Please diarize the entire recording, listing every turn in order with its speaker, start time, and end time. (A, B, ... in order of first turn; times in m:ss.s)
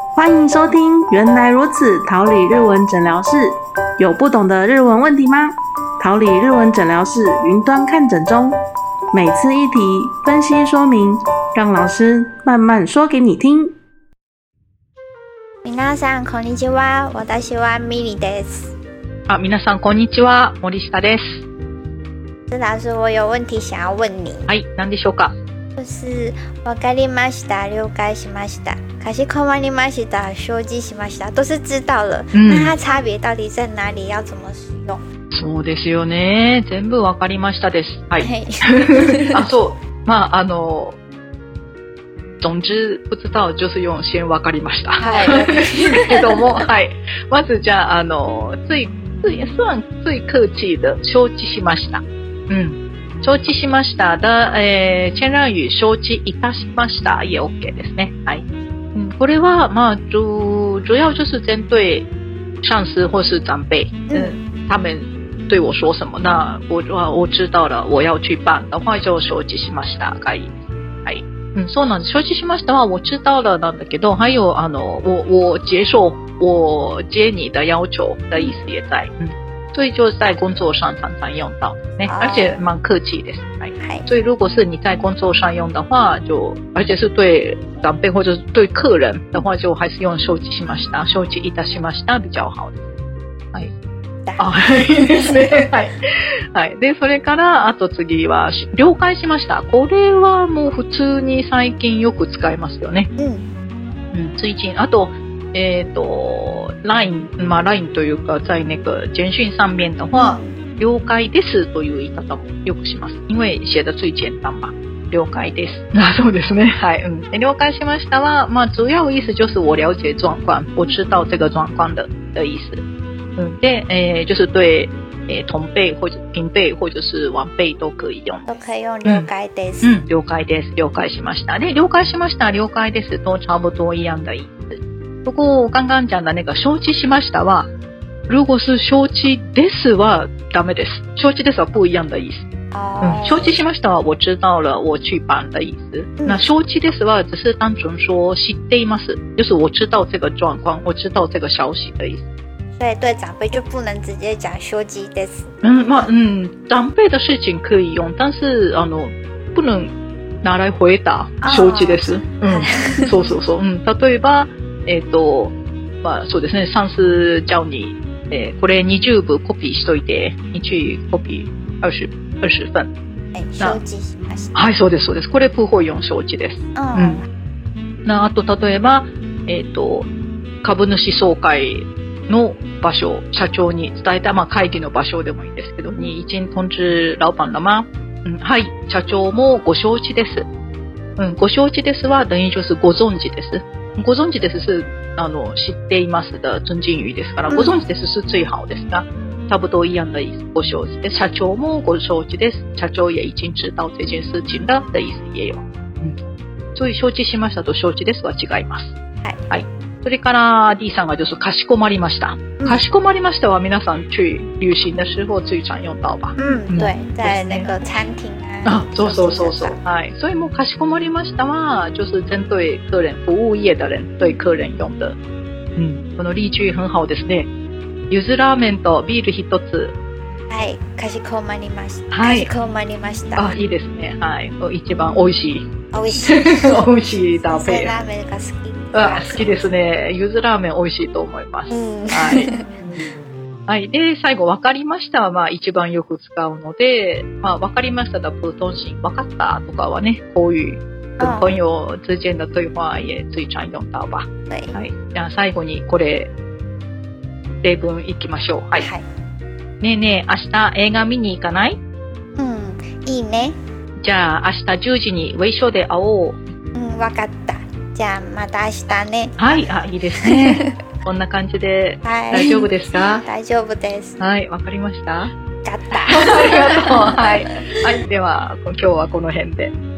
0:00.1-0:08.6 A
0:09.1-0:13.7 A
0:15.6-0:18.7 B
0:19.3-0:21.4 C
0:22.5-0:24.5 B
0:24.5-0:25.3 C
0:25.8-0:35.0 B
0:32.3-0:32.8 C
0:35.3-0:41.0 C
0:38.2-0:39.4 B
0:42.4-0:58.4 C
0:45.0-0:46.2 B
0:58.9-1:02.1 C
1:02.6-1:32.8 C
1:04.1-1:04.4 B
1:22.0-1:22.6 B
1:23.8-1:24.1 B
1:34.2-1:35.3 B
1:34.4-1:36.0 C
1:36.5-1:43.1 C
1:43.2-1:43.5 B
1:44.1-2:02.8 C
1:50.1-1:50.6 B
2:03.4-2:08.5 C
2:08.5-2:10.0 B
2:09.8-2:17.7 C
2:18.3-2:22.4 C
2:22.7-2:23.6 B
2:23.0-2:32.2 C
2:26.2-2:26.5 B
2:32.8-2:36.1 B
2:35.6-2:39.9 C
2:40.4-2:52.9 C
2:41.4-2:43.1 B
2:53.3-2:54.6 B
2:54.5-2:57.2 C
2:56.7-2:57.2 B
2:58.0-3:00.1 C
3:00.6-3:10.5 C
3:11.2-3:26.2 C
3:17.5-3:17.8 B
3:26.7-3:28.9 C
3:29.2-3:29.5 B
3:29.5-3:37.7 C
3:32.6-3:32.8 B
3:36.4-3:39.8 B
3:38.6-3:45.2 C
3:45.8-3:47.5 C
3:48.1-3:49.9 C
3:50.5-3:53.5 B
3:52.1-3:52.5 C
3:53.4-3:58.0 C
3:55.9-3:59.6 B
3:58.9-4:03.1 C
4:01.7-4:02.6 B
4:03.7-4:16.3 C
4:11.2-4:11.5 B
4:14.5-4:14.8 B
4:17.6-4:18.9 C
4:18.8-4:19.0 B
4:19.8-4:21.8 C
4:22.4-4:23.6 B
4:24.0-4:26.4 C
4:26.7-4:29.4 B
4:29.4-4:33.2 C
4:30.2-4:30.7 B
4:32.0-4:34.2 B
4:34.2-4:35.3 C
4:35.6-4:37.6 B
4:35.9-4:39.7 C